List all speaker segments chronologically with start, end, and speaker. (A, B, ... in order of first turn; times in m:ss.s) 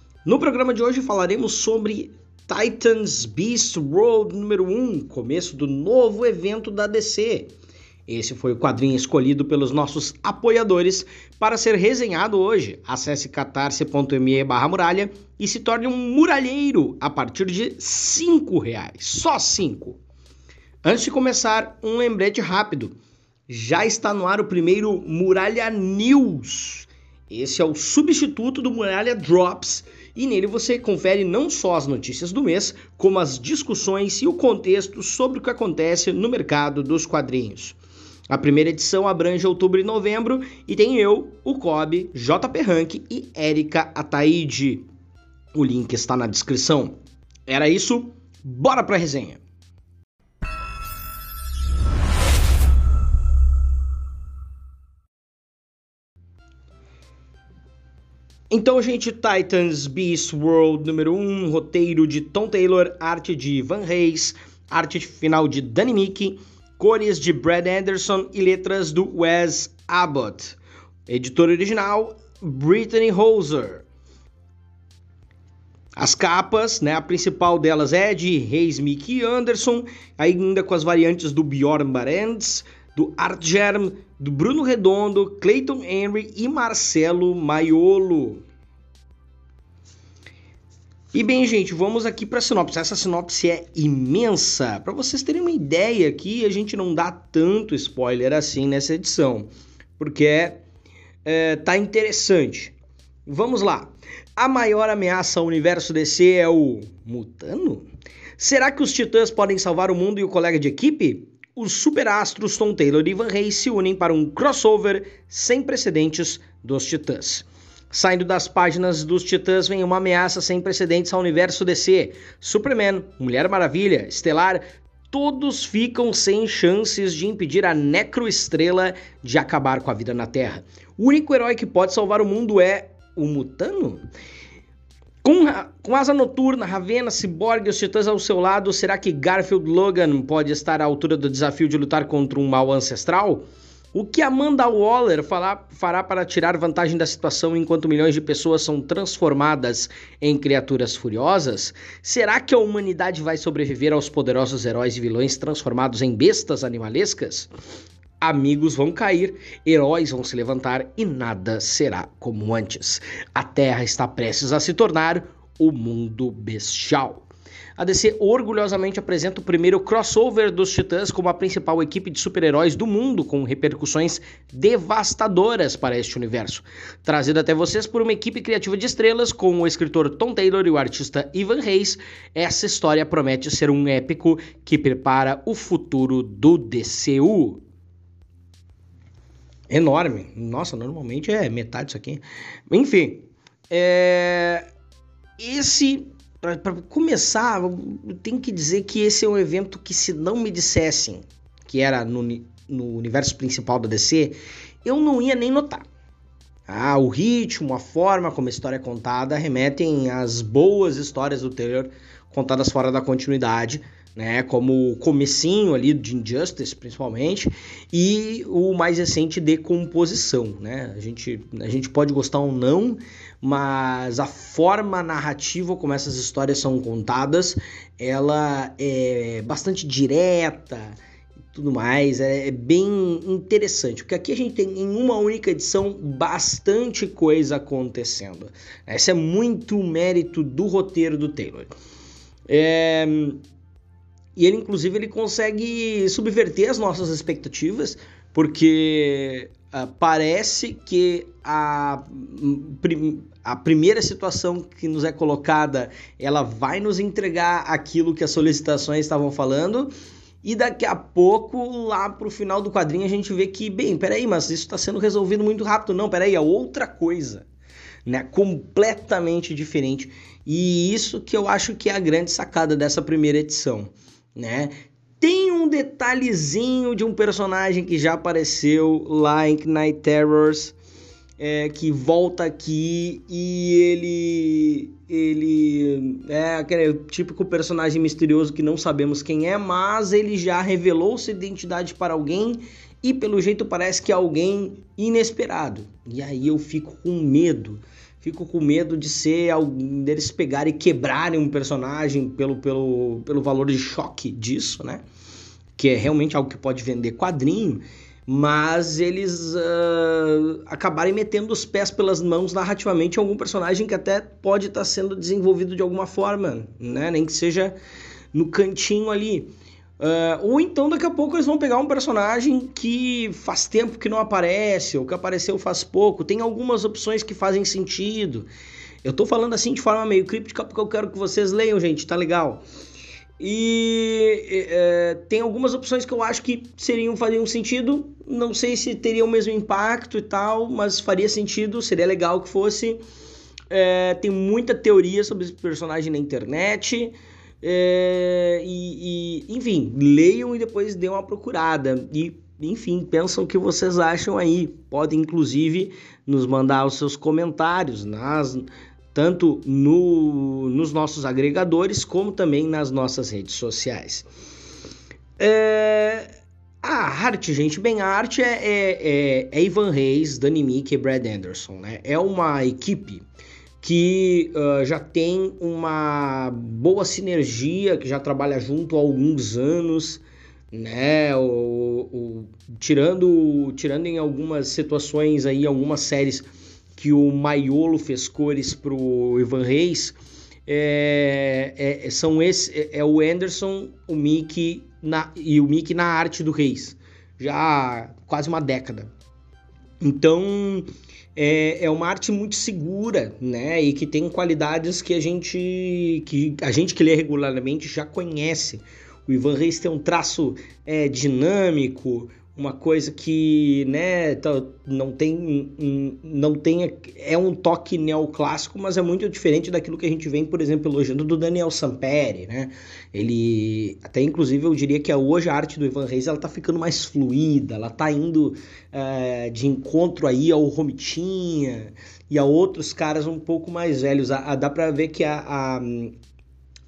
0:00.2-0:07.5 A
0:08.1-0:20.0 A
0:20.8-0:22.9 A
0:23.5-0:37.8 A
0:38.3-0:44.8 A
0:45.5-0:46.9 A
0:47.5-0:49.4 A
0:58.5-1:13.8 A
1:16.0-1:28.4 A
1:31.1-1:39.5 A
1:40.0-1:40.6 A
1:41.2-1:42.7 A
1:43.3-1:47.9 A
1:48.4-2:14.0 A
2:15.2-2:37.5 A
2:38.2-3:07.6 A
3:09.7-3:14.6 A
3:15.4-3:25.8 A
3:26.7-3:51.0 A
3:51.5-4:01.7 A
4:02.5-4:03.4 A
4:04.4-4:19.9 A
4:20.4-4:27.5 A
4:28.0-4:40.7 A
4:41.4-5:05.0 A
5:05.8-5:17.8 A
5:18.3-5:19.5 A
5:20.0-5:28.5 A
5:29.0-5:32.6 A
5:33.4-5:43.0 A
5:43.7-6:04.3 A
6:05.4-6:06.3 A
6:06.8-6:13.2 A
6:13.8-6:20.2 A
6:20.7-6:30.2 A
6:30.7-6:39.1 A
6:40.0-7:16.1 A